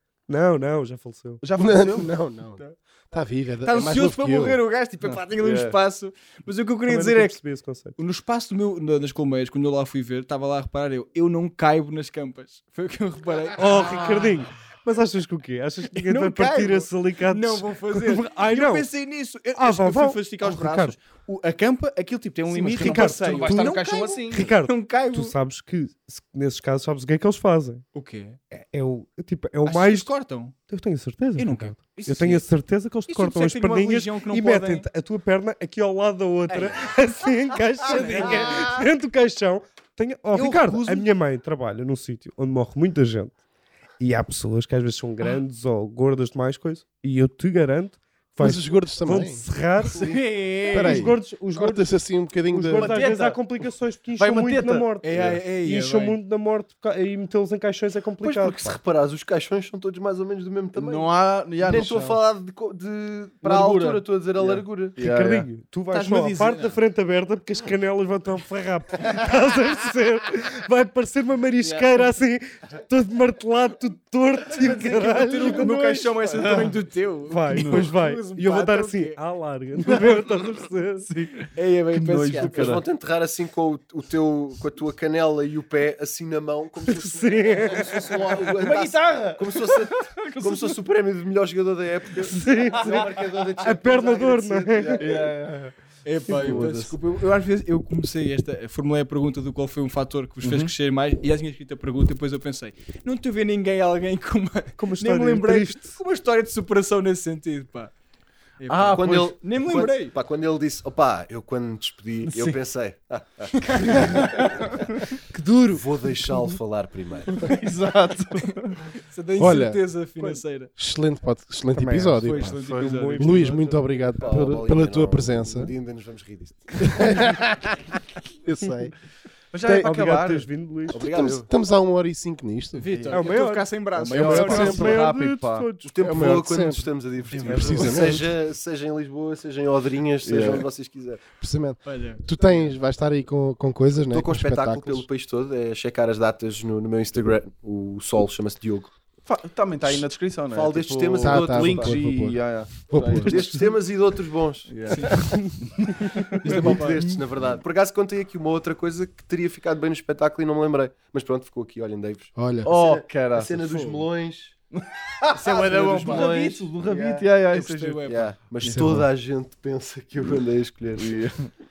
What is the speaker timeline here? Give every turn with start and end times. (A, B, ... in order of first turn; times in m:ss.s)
0:00.3-0:01.4 A
0:01.4-0:02.1 B
0:01.6-0:04.6 C
0:03.6-0:07.4 D
0:05.0-0:05.8 B
0:06.9-0:08.0 A
0:08.0-0:14.4 D
0:13.6-0:18.9 A
0:15.9-0:25.3 D
0:19.6-0:21.0 A
0:22.5-0:27.8 A
0:22.7-0:24.5 B
0:27.9-0:28.4 D
0:28.5-0:30.1 A
0:29.6-0:30.6 D
0:30.7-0:43.3 A
0:31.4-0:32.5 D
0:33.1-0:34.9 D
0:36.5-0:36.8 D
0:37.9-0:38.8 D
0:40.3-0:41.1 D
0:44.0-0:50.0 A
0:48.4-0:49.5 C
0:49.9-0:51.1 D
0:50.7-0:53.0 C
0:50.7-0:51.9 A
0:52.5-0:58.8 A
0:52.7-0:53.4 B
0:54.2-0:55.4 B
0:55.0-0:56.2 D
0:58.2-1:05.0 E
1:00.8-1:02.2 B
1:03.4-1:05.5 B
1:05.0-1:16.6 A
1:05.9-1:06.8 D
1:14.5-1:19.2 D
1:16.3-1:16.8 B
1:17.3-1:21.1 A
1:17.5-1:17.9 B
1:21.1-1:22.8 B
1:21.5-1:22.8 D
1:22.4-1:35.3 E
1:26.8-1:28.4 A
1:28.6-1:30.8 B
1:32.2-1:35.1 A
1:35.0-1:35.7 B
1:36.0-1:47.9 D
1:36.4-1:36.9 E
1:36.4-1:36.7 B
1:40.4-1:40.7 B
1:44.8-1:46.0 A
1:48.6-1:50.1 D
1:48.7-1:49.4 B
1:48.9-1:54.6 E
1:53.6-1:54.5 D
1:55.3-1:56.6 A
1:55.7-1:57.4 E
1:57.4-1:58.8 B
1:59.1-2:00.7 D
1:59.4-1:59.9 C
2:00.8-2:05.7 C
2:01.8-2:03.7 A
2:02.2-2:04.0 D
2:04.2-2:07.4 E
2:06.8-2:07.5 C
2:08.4-2:08.9 C
2:09.5-2:10.5 B
2:09.6-2:11.0 A
2:10.9-2:11.5 E
2:11.0-2:13.0 C
2:12.8-2:15.0 D
2:12.9-2:13.3 B
2:13.1-2:16.2 A
2:14.0-2:15.7 B
2:15.8-2:21.4 E
2:16.0-2:16.9 C
2:17.3-2:18.1 D
2:17.4-2:18.3 C
2:20.2-2:20.7 B
2:21.3-2:25.0 C
2:21.9-2:22.2 D
2:24.1-2:28.9 E
2:29.2-2:33.6 B
2:30.5-2:32.0 E
2:31.2-2:33.5 C
2:33.2-2:35.4 E
2:34.7-2:37.2 B
2:34.9-2:35.3 D
2:36.4-2:44.6 E
2:36.4-2:37.0 D
2:42.3-2:42.7 C
2:42.6-2:44.0 B
2:44.8-2:48.0 B
2:45.2-2:47.2 E
2:45.6-2:48.3 D
2:48.0-2:51.1 E
2:48.6-2:49.1 C
2:51.0-2:51.5 B